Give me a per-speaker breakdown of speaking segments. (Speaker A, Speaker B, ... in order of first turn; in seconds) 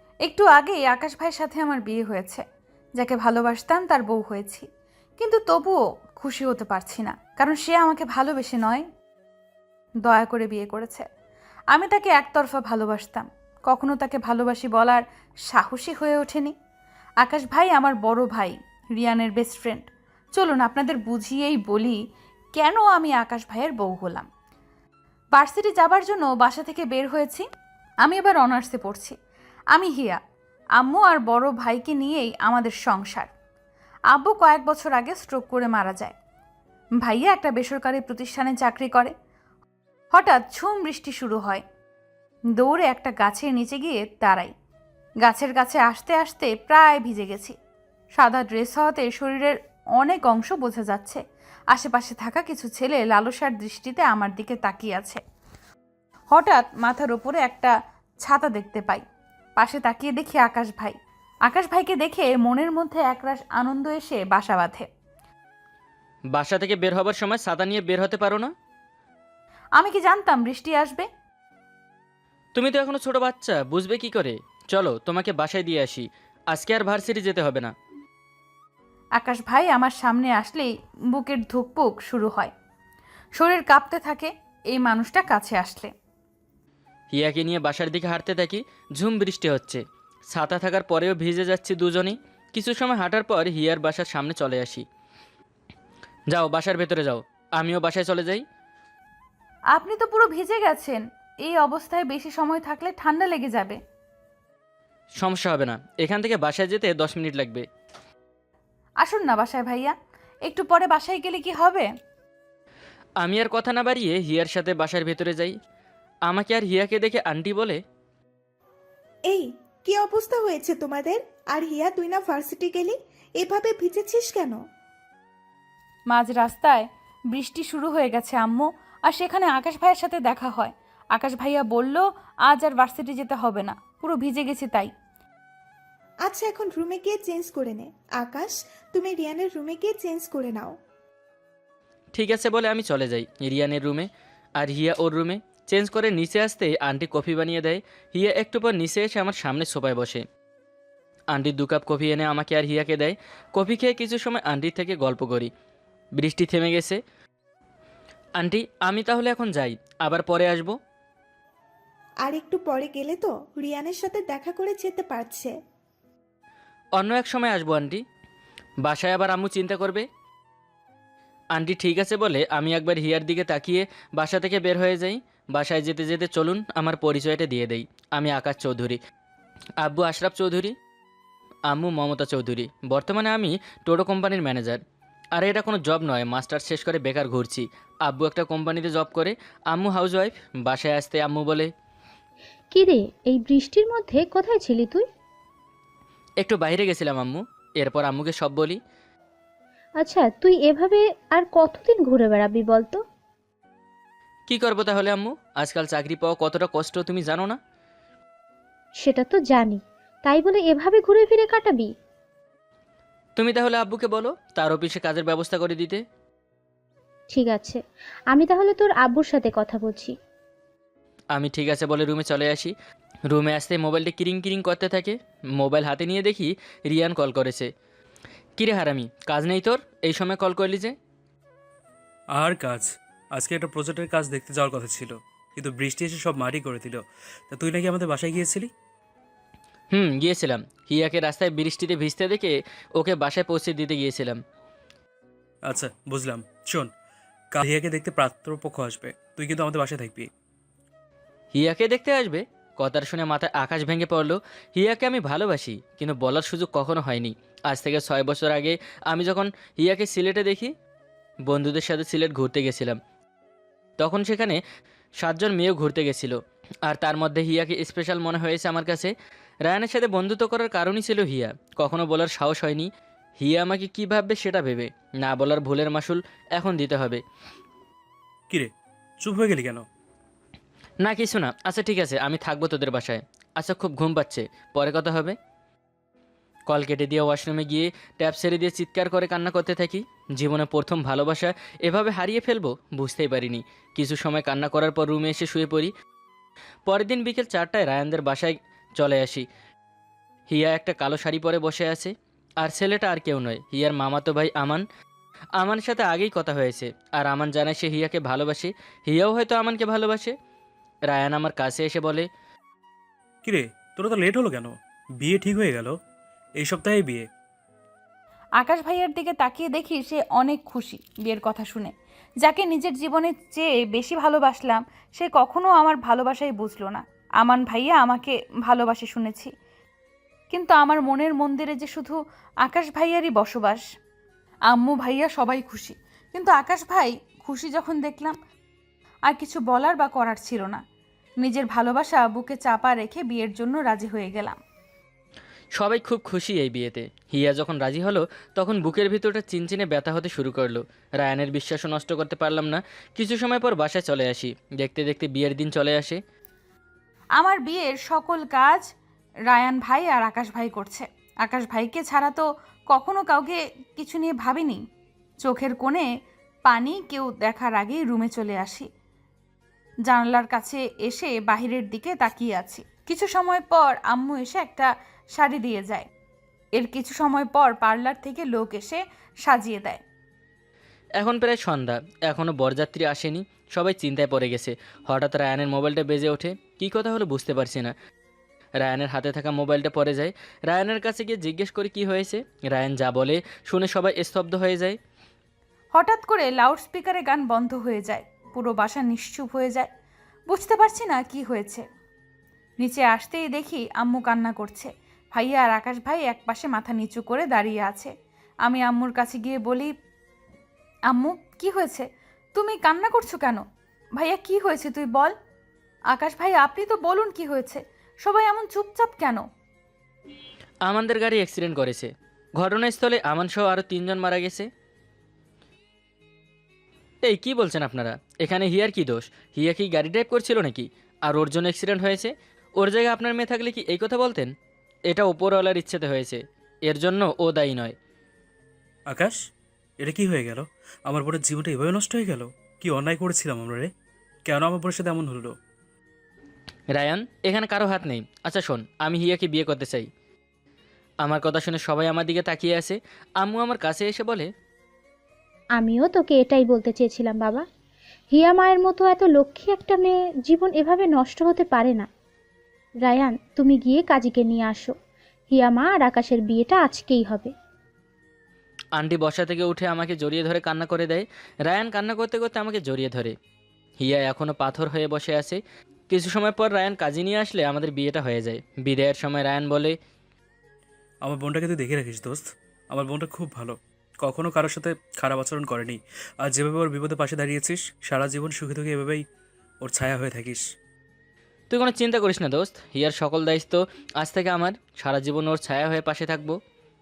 Speaker A: 0.2-2.4, 3.0-4.7, 5.2-8.8, 10.1-11.1, 11.7-16.5, 17.2-22.0, 22.6-24.3, 25.3-27.4, 28.0-29.2, 29.7-30.2, 30.8-33.3, 34.1-36.1, 37.0-39.1, 40.1-41.6, 42.6-44.5, 45.2-47.5, 48.2-55.2, 56.3-59.0, 59.6-64.9, 69.8-71.1, 79.2-82.5, 83.4-85.9, 99.7-103.8, 109.0-110.0, 110.5-111.9, 126.1-134.9, 318.6-329.5, 330.5-333.8, 334.7-338.4, 339.3-340.8, 341.4-344.6, 357.4-358.9, 359.5-364.8, 365.4-366.1, 366.7-368.9, 370.1-376.1, 376.8-380.0, 395.9-399.9, 400.5-401.9, 402.8-408.1, 408.6-409.9, 411.1-413.6, 414.2-415.3, 416.1-419.4
Speaker B: 66.3-68.5, 72.5-77.7, 87.1-94.8, 96.3-98.4, 105.2-107.6, 113.2-115.5, 116.3-117.8, 142.2-144.1, 144.6-150.2, 151.3-155.5, 156.2-157.0, 158.4-160.7, 167.0-168.0, 168.8-170.0, 171.6-179.0, 179.8-180.7, 181.7-184.8, 185.4-191.7, 196.4-198.8, 204.5-207.6, 213.4-216.0, 221.3-222.7, 223.3-227.7, 228.6-230.9, 239.9-244.4, 251.6-260.7, 261.5-263.0, 264.0-264.6, 265.2-266.4, 266.9-269.1, 269.7-272.9, 273.4-277.2, 281.0-285.4, 286.7-295.9, 296.9-299.5, 300.5-304.8, 305.6-310.3, 311.1-312.3, 345.8-356.2, 381.2-387.9, 388.8-395.0, 420.9-424.7, 427.2-434.5, 435.1-438.0, 446.9-450.1, 451.2-454.5, 469.0-473.3, 474.0-480.0, 491.7-496.6
Speaker C: 119.3-124.6, 136.2-140.7, 162.2-165.5
Speaker D: 192.7-195.1, 200.0-203.0, 209.0-211.9, 217.3-217.8, 218.3-220.1, 455.8-457.6, 458.3-462.1, 463.0-464.9, 465.5-467.5
Speaker E: 232.3-238.7, 245.7-246.9, 247.5-250.3, 278.5-279.9, 313.4-316.0, 316.6-317.3, 439.1-439.4, 440.0-443.9, 444.5-445.6, 481.2-489.2, 489.8-490.6